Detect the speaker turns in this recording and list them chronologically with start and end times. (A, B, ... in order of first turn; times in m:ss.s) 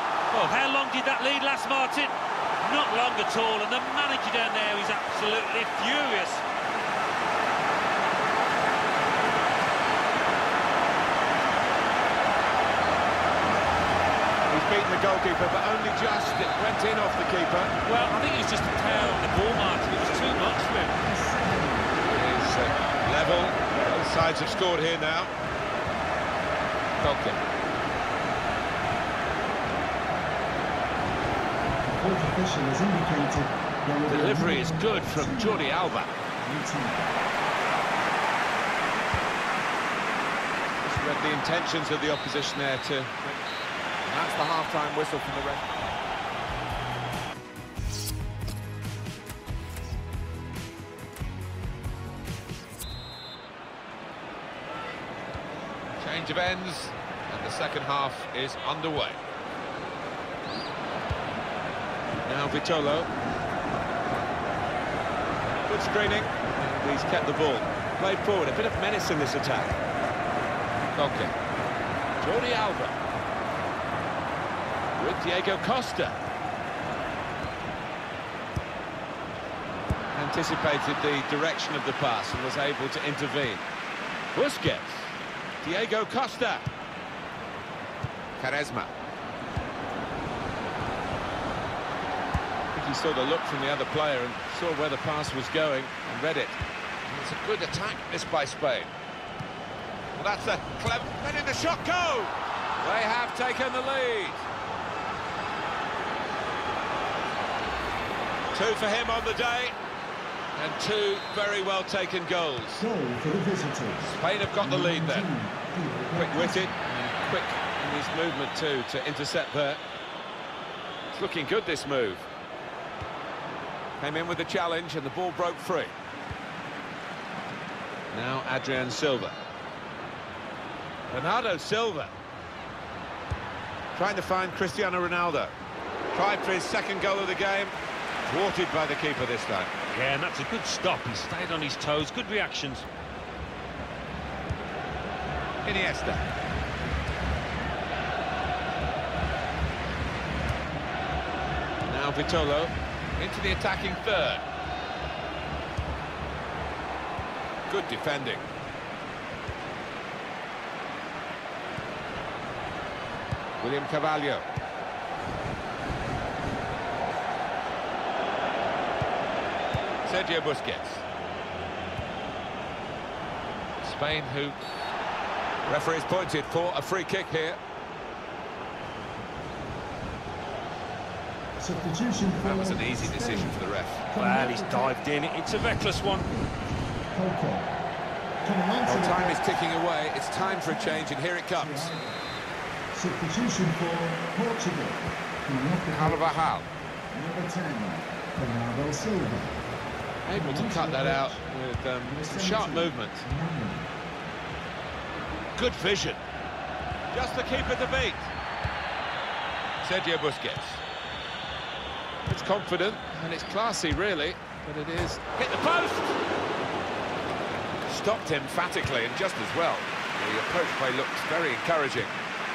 0:00.3-0:06.4 A
0:14.5-0:17.7 B
0:17.8-0:20.9 A
0:21.0-0:22.0 C
0:22.1-0:25.3 B
0:27.0-0:27.4 B
0:31.9-0:35.7 C
0:34.0-0:36.1 B
0:36.4-0:37.1 C
0:40.8-0:43.4 B
0:44.0-0:45.7 B
0:56.0-0:59.2 B
1:02.2-1:03.1 B
1:05.7-1:09.7 B
1:10.9-1:11.3 B
1:12.2-1:13.0 B
1:15.0-1:16.2 B
1:20.1-1:23.6 B
1:24.3-1:26.7 B
1:28.4-1:28.9 B
1:32.7-1:38.9 B
1:40.1-1:44.4 B
1:48.5-1:49.7 B
1:50.5-1:52.8 B
1:52.8-1:56.8 C
1:54.0-1:55.3 B
1:56.1-1:59.8 B
2:01.1-2:02.3 B
2:04.0-2:05.9 B
2:08.1-2:09.4 B
2:11.1-2:12.1 B
2:13.9-2:15.5 B
2:16.1-2:19.7 B
2:19.9-2:22.8 A
2:25.6-2:26.2 B
2:31.9-2:34.4 B
2:37.7-2:38.5 B
2:43.6-2:44.4 B
2:50.0-2:51.0 B
2:53.8-2:54.6 B
2:55.6-2:57.6 B
3:01.6-3:05.0 C
3:02.4-3:04.1 B
3:04.2-3:06.3 A
3:06.1-3:06.5 C
3:07.1-3:07.7 C
3:08.4-3:09.4 C
3:08.8-3:11.9 B
3:10.3-3:12.2 C
3:12.9-3:16.4 C
3:15.9-3:16.7 B
3:17.1-3:19.6 C
3:20.2-3:23.3 B
3:20.3-3:21.4 C
3:22.0-3:23.9 C
3:25.6-3:26.2 B
3:27.1-3:28.3 B
3:29.8-3:30.8 B
3:32.3-3:36.2 B
3:37.8-3:42.2 B